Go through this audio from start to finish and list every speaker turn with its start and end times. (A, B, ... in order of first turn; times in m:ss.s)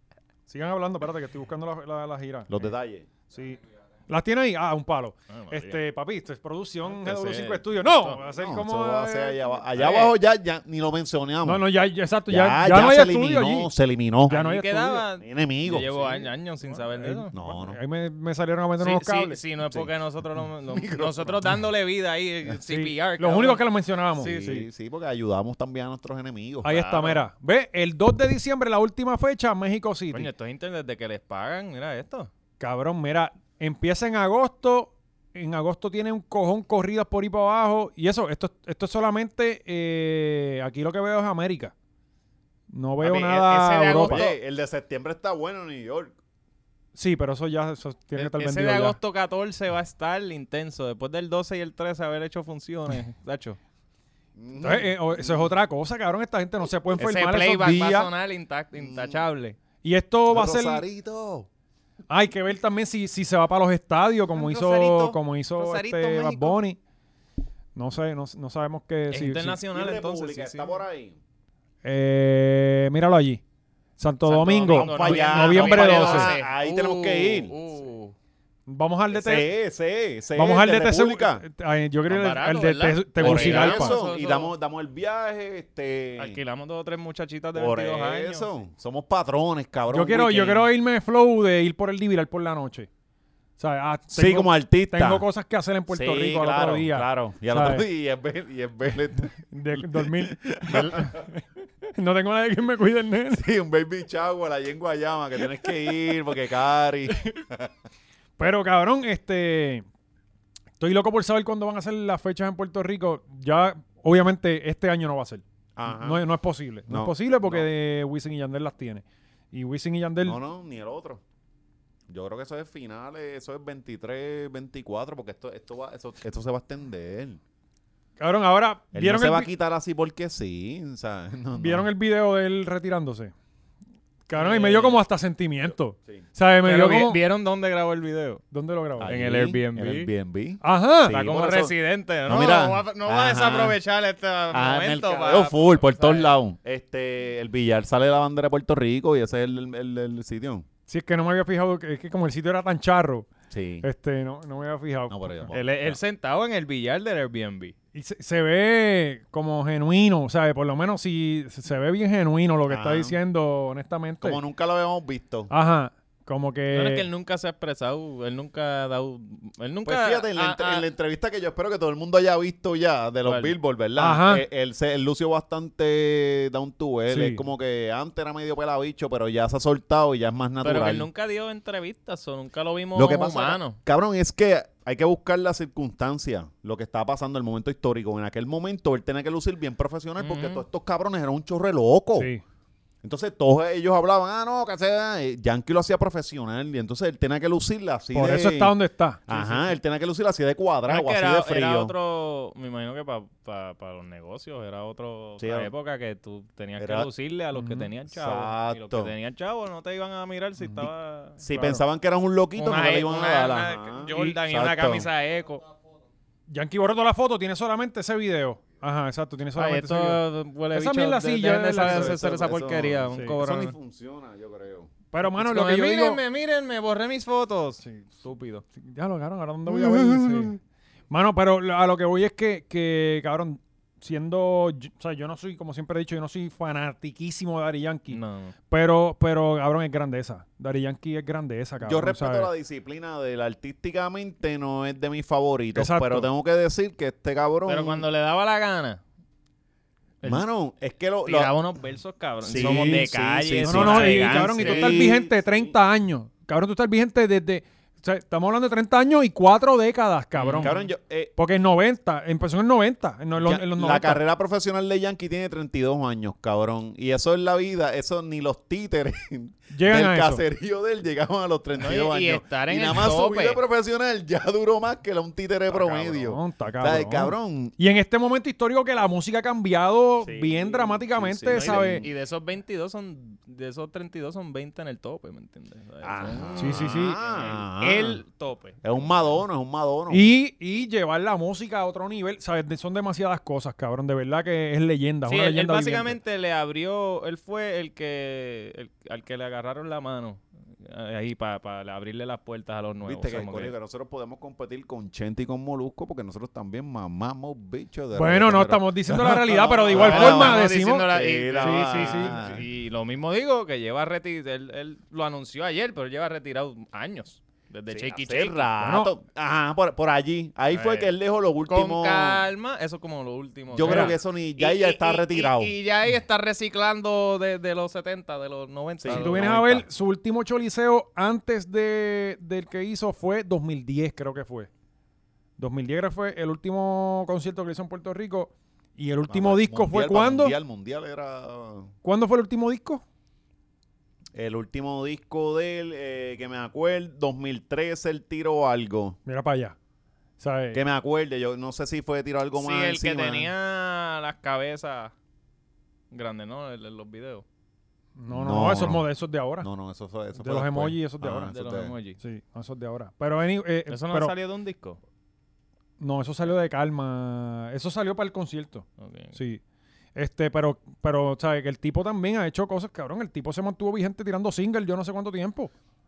0:00.5-0:02.5 A
0:02.5-0:03.1 B
0:03.3-0:09.4 A
0:05.3-0:05.8 C
0:07.0-0:08.2 C
0:08.2-0:11.7 B
0:09.7-0:10.1 C
0:11.4-0:13.7 A
0:12.3-0:14.4 B
0:14.3-0:15.1 A
0:14.3-0:17.3 C
0:15.2-0:16.2 B
0:16.7-0:19.4 A
0:17.3-0:17.8 B
0:18.8-0:23.6 C
0:20.7-0:21.4 B
0:22.7-0:24.7 A
0:24.2-0:24.6 C
0:24.2-0:26.8 B
0:26.6-0:30.3 A
0:26.7-0:27.2 C
0:30.1-0:32.3 C
0:32.6-0:41.7 A
0:42.7-0:44.2 A
0:43.0-0:44.4 C
0:44.0-0:46.1 B
0:47.0-0:49.0 A
0:48.2-0:53.6 C
0:54.4-0:55.5 B
0:54.6-0:58.1 A
0:57.0-0:59.6 C
0:58.8-0:59.2 B
0:59.8-1:00.8 A
1:00.3-1:01.5 B
1:02.1-1:06.8 A
1:04.4-1:06.6 C
1:07.8-1:09.6 A
1:09.1-1:10.8 C
1:09.7-1:11.2 B
1:11.8-1:13.4 A
1:14.0-1:16.3 A
1:14.3-1:18.2 C
1:14.7-1:17.6 B
1:18.7-1:19.5 A
1:19.1-1:21.4 B
1:20.4-1:24.0 A
1:22.1-1:24.5 C
1:23.2-1:26.4 B
1:26.2-1:28.5 C
1:27.6-1:30.7 B
1:29.9-1:32.9 A
1:33.6-1:37.9 A
1:34.2-1:35.2 B
1:35.9-1:41.2 B
1:39.5-1:41.4 A
1:42.0-1:43.4 A
1:43.3-1:47.7 B
1:48.4-1:49.9 A
1:50.8-2:00.4 A
1:55.8-1:56.2 B
1:56.9-1:57.7 B
2:00.2-2:01.2 B
2:02.1-2:07.4 B
2:08.2-2:09.5 A
2:08.9-2:11.9 B
2:11.6-2:13.3 A
2:14.3-2:17.2 A
2:14.4-2:15.0 C
2:16.6-2:18.4 C
2:18.5-2:19.1 A
2:19.0-2:21.7 B
2:19.0-2:20.1 C
2:20.6-2:21.2 A
2:21.1-2:26.3 C
2:22.3-2:23.8 B
2:24.5-2:30.7 B
2:30.9-2:33.3 A
2:33.5-2:33.8 B
2:33.8-2:35.5 A
2:35.1-2:36.0 B
2:35.5-2:37.8 C
2:38.0-2:44.4 A
2:42.7-2:43.2 B
2:44.2-2:45.5 B
2:45.5-2:47.1 A
2:46.7-2:50.9 C
2:49.9-3:01.1 B
2:53.2-2:53.6 C
2:54.0-2:54.4 A
2:57.1-2:57.4 A
3:00.6-3:03.8 C
3:03.0-3:12.3 B
3:10.2-3:10.6 C
3:12.2-3:12.4 A
3:13.0-3:21.9 B
3:18.1-3:19.6 A
3:20.9-3:31.4 C
3:25.4-3:25.7 B
3:26.8-3:27.1 B
3:27.5-3:27.9 A
3:28.1-3:29.1 B
3:31.4-3:35.1 B
3:31.5-3:31.8 A
3:32.6-3:35.7 C
3:34.1-3:34.4 A
3:36.5-3:40.2 A
3:39.6-3:43.8 C
3:40.7-3:42.3 A
3:41.8-3:44.9 B
3:45.1-3:46.2 A
3:45.3-3:48.6 C
3:47.8-3:48.1 A
3:48.8-3:50.6 A
3:51.1-4:02.5 A
3:58.1-3:58.5 C
4:01.8-4:08.1 B
4:05.7-4:06.3 A
4:07.7-4:09.0 C
4:10.2-4:11.6 B
4:11.2-4:15.1 C
4:12.4-4:15.8 B
4:12.6-4:13.0 A
4:13.6-4:20.8 A
4:20.4-4:20.9 C
4:20.6-4:21.3 B
4:21.4-4:24.2 A
4:23.4-4:37.7 B
4:29.7-4:30.4 A
4:31.8-4:33.6 C
4:35.7-4:36.0 C
4:36.0-4:42.0 A
4:40.2-4:42.1 B
4:41.6-4:49.4 C
4:46.0-4:48.2 B
4:46.6-4:47.2 A
4:48.8-4:50.3 B
4:50.1-4:56.2 A
4:55.3-5:03.7 C
5:03.1-5:12.7 B
5:08.1-5:11.1 A
5:09.9-5:18.7 C
5:11.6-5:12.4 A
5:17.9-5:22.4 B
5:18.8-5:19.1 A
5:20.7-5:21.1 C
5:21.6-5:29.5 C
5:23.7-5:25.8 B
5:23.8-5:24.2 A
5:29.0-5:29.8 B
5:29.1-5:34.7 A
5:35.6-5:40.5 A
5:39.3-5:41.9 B
5:42.0-5:43.0 A
5:44.3-5:49.2 B
5:49.3-5:49.8 A
5:50.4-5:50.8 A
5:50.7-5:53.5 B
5:52.6-5:55.1 C
5:56.1-5:57.4 C
5:58.2-5:59.7 A
5:58.3-5:59.1 B
5:59.6-6:02.0 B
6:00.4-6:01.5 A
6:01.5-6:02.2 C
6:02.2-6:04.3 A
6:03.9-6:05.0 C
6:06.0-6:09.6 A
6:09.0-6:09.4 C
6:10.2-6:15.7 A